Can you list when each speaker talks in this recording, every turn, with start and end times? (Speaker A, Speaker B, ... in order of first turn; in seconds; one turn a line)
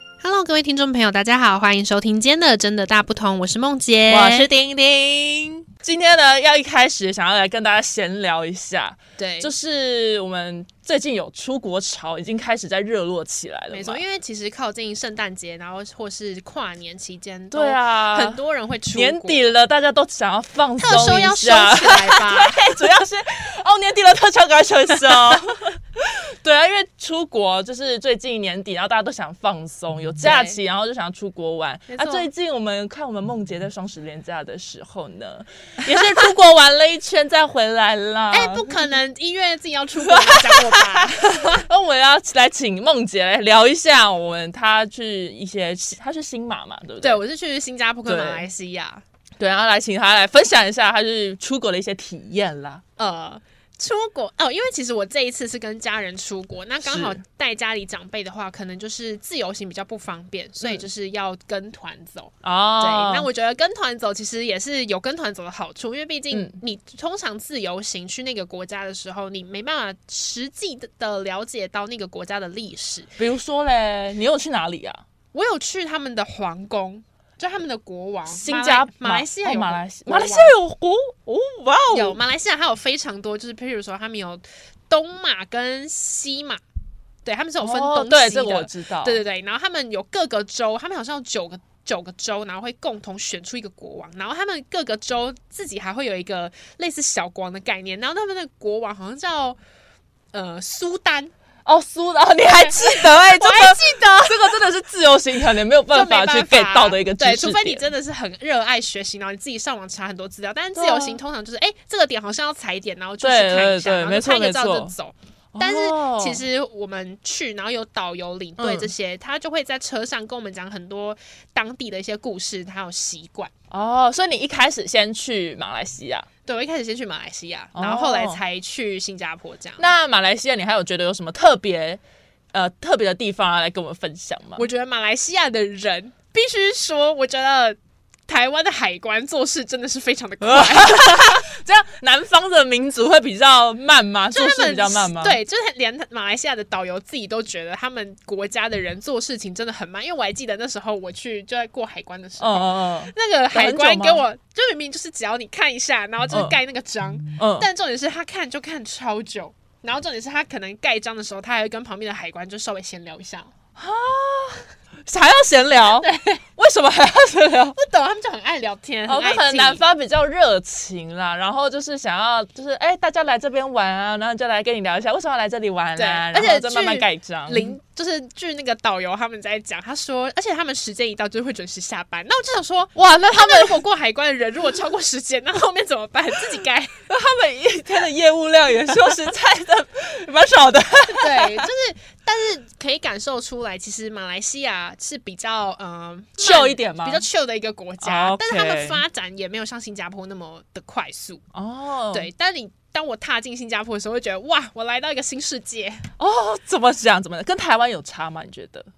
Speaker A: 0.2-4.5
Speaker B: 4.1-14.0
Speaker A: 9.2-9.5
Speaker A: 13.7-19.5
Speaker B: 17.5-18.4
Speaker B: 18.9-38.8
Speaker A: 20.8-22.6
Speaker A: 30.2-30.6
Speaker A: 31.9-32.3
Speaker A: 38.3-41.7
Speaker B: 40.0-47.2
Speaker A: 47.0-49.0
Speaker B: 48.0-48.5
Speaker B: 49.4-52.8
Speaker A: 53.0-73.1
Speaker B: 56.8-57.2
Speaker B: 62.4-63.3
Speaker B: 66.3-66.6
Speaker B: 73.2-75.0
Speaker A: 75.3-80.5
Speaker B: 78.3-82.2
Speaker A: 81.9-86.6
Speaker A: 87.2-99.6
Speaker B: 87.6-89.2
Speaker A: 100.3-101.3
Speaker B: 101.6-107.8
Speaker A: 102.6-104.6
Speaker A: 105.9-123.5
Speaker B: 110.7-111.2
Speaker B: 113.2-114.9
Speaker B: 115.5-116.4
Speaker B: 118.6-118.9
Speaker B: 123.7-126.3
Speaker A: 126.5-129.9
Speaker B: 127.7-128.4
Speaker B: 129.8-132.0
Speaker B: 132.5-134.7
Speaker A: 134.6-141.4
Speaker B: 140.4-145.4
Speaker A: 144.3-163.5
Speaker B: 152.4-154.2
Speaker B: 156.3-156.6
Speaker B: 157.4-157.7
Speaker B: 163.8-167.8
Speaker A: 166.0-166.4
Speaker A: 167.8-169.8
Speaker B: 169.1-177.8
Speaker A: 175.9-186.9
Speaker B: 182.9-183.8
Speaker B: 187.1-191.7
Speaker A: 191.1-201.4
Speaker B: 196.4-197.2
Speaker B: 198.0-199.0
Speaker B: 201.5-202.3
Speaker A: 202.1-206.1
Speaker B: 206.2-208.9